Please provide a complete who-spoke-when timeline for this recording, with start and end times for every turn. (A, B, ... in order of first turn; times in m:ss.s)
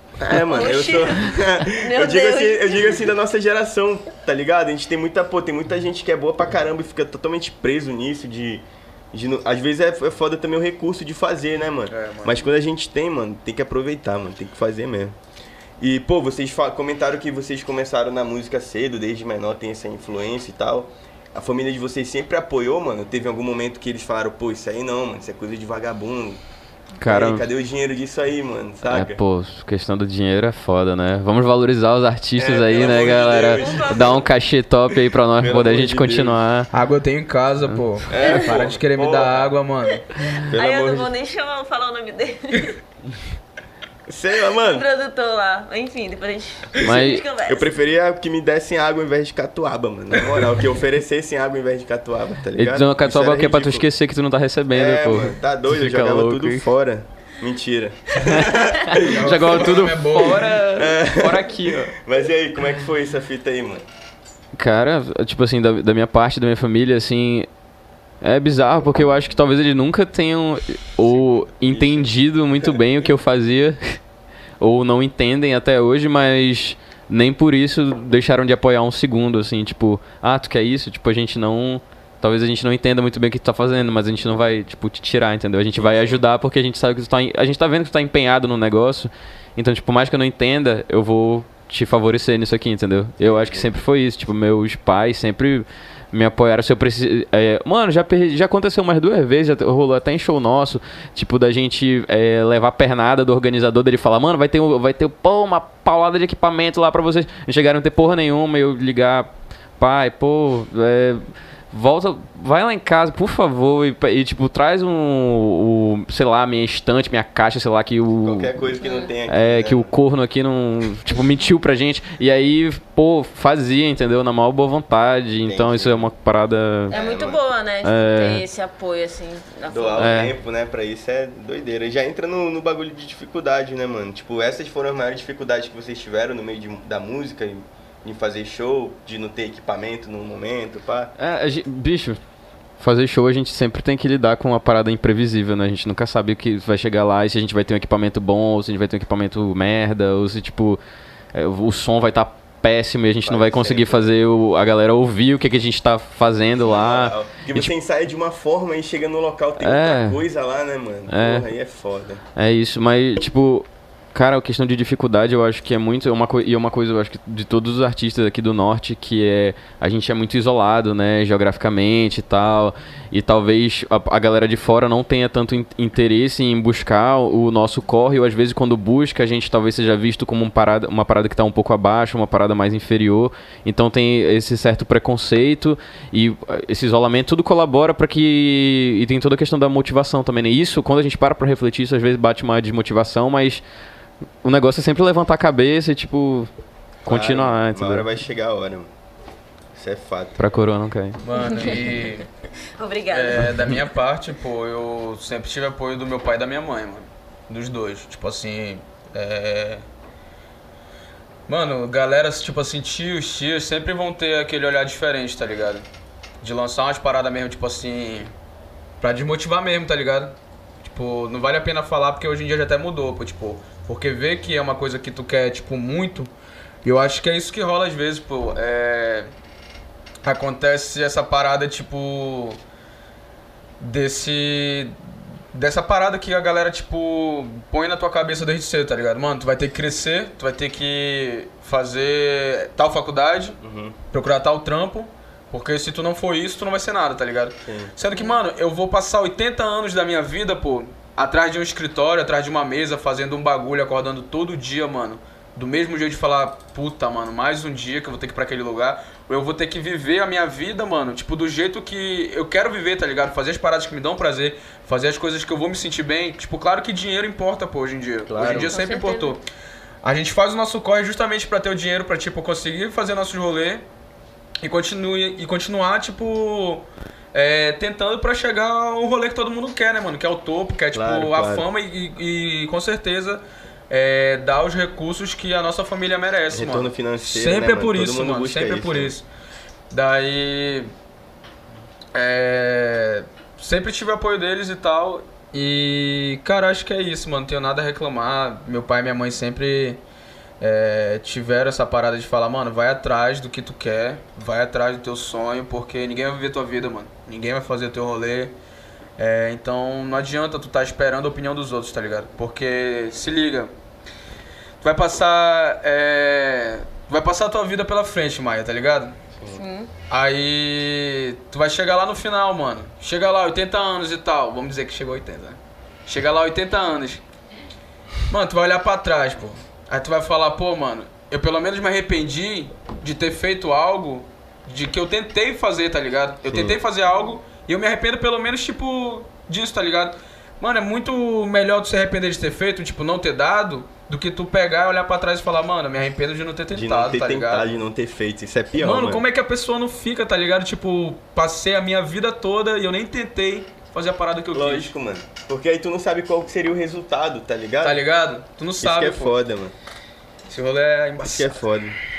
0:00.2-0:15.2 A
0:00.3-0:03.0 B
0:11.9-0:12.5 C
0:15.8-0:26.4 A
0:27.0-0:27.5 D
0:27.0-0:29.2 A
0:28.8-0:36.7 D
0:32.4-0:34.2 A
0:32.8-0:34.2 B
0:35.4-0:36.4 A
0:36.7-0:40.0 C
0:38.1-0:39.5 A
0:38.2-0:38.5 B
0:40.3-0:42.8 B
0:40.5-0:41.1 A
0:44.1-0:44.8 A
0:44.5-0:47.7 B
0:46.8-0:53.9 A
0:46.8-0:47.2 D
0:52.5-0:56.7 D
0:54.7-0:59.0 A
0:58.2-1:01.9 D
0:58.9-1:00.6 C
1:00.8-1:03.8 A
1:04.6-1:07.5 D
1:08.2-1:14.0 D
1:11.6-1:12.1 A
1:14.6-1:58.5 D
1:25.8-1:26.2 A
1:33.2-1:33.7 A
1:58.2-1:59.9 A
1:58.8-1:59.1 B
1:59.3-2:07.0 D
2:05.4-2:06.1 A
2:06.9-2:07.4 A
2:06.9-2:10.1 B
2:07.8-2:08.4 D
2:09.7-2:21.1 A
2:10.0-2:10.3 D
2:21.2-2:22.2 D
2:22.8-2:30.8 D
2:31.3-2:37.7 D
2:33.2-2:34.1 A
2:36.6-2:42.2 A
2:39.6-2:40.2 D
2:41.1-2:41.5 D
2:42.4-3:13.6 D
3:14.4-3:16.5 D
3:17.0-3:18.1 D
3:17.1-3:18.9 A
3:19.7-3:20.4 A
3:20.4-3:21.2 D
3:21.2-3:22.2 C
3:21.3-3:21.9 B
3:22.8-3:23.5 B
3:23.1-3:29.8 C
3:31.5-3:35.8 C
3:36.4-3:38.3 C
3:39.0-3:46.3 C
3:46.8-3:49.3 C
3:50.2-3:52.6 C
3:53.8-3:55.0 C
3:55.5-4:03.6 C
4:03.6-4:03.9 A
4:04.1-4:29.4 C
4:07.6-4:07.9 A
4:08.1-4:08.4 B
4:28.3-4:28.7 A
4:28.4-4:29.4 B
4:30.0-4:33.8 C
4:34.6-4:49.2 C
4:40.9-4:41.6 A
4:46.5-4:49.1 A
4:49.9-4:50.9 C
4:52.1-5:00.0 C
5:00.6-5:08.6 C
5:09.2-5:13.7 C
5:14.8-5:19.1 C
5:19.5-5:19.9 B
5:20.1-5:27.2 C
5:28.3-5:47.7 C
5:36.5-5:36.8 A
5:46.7-5:49.2 A
5:48.8-5:54.9 C
5:54.5-5:58.0 A
5:57.8-5:59.3 C
5:58.8-5:59.7 A
6:00.5-6:01.6 C
6:01.2-6:02.0 A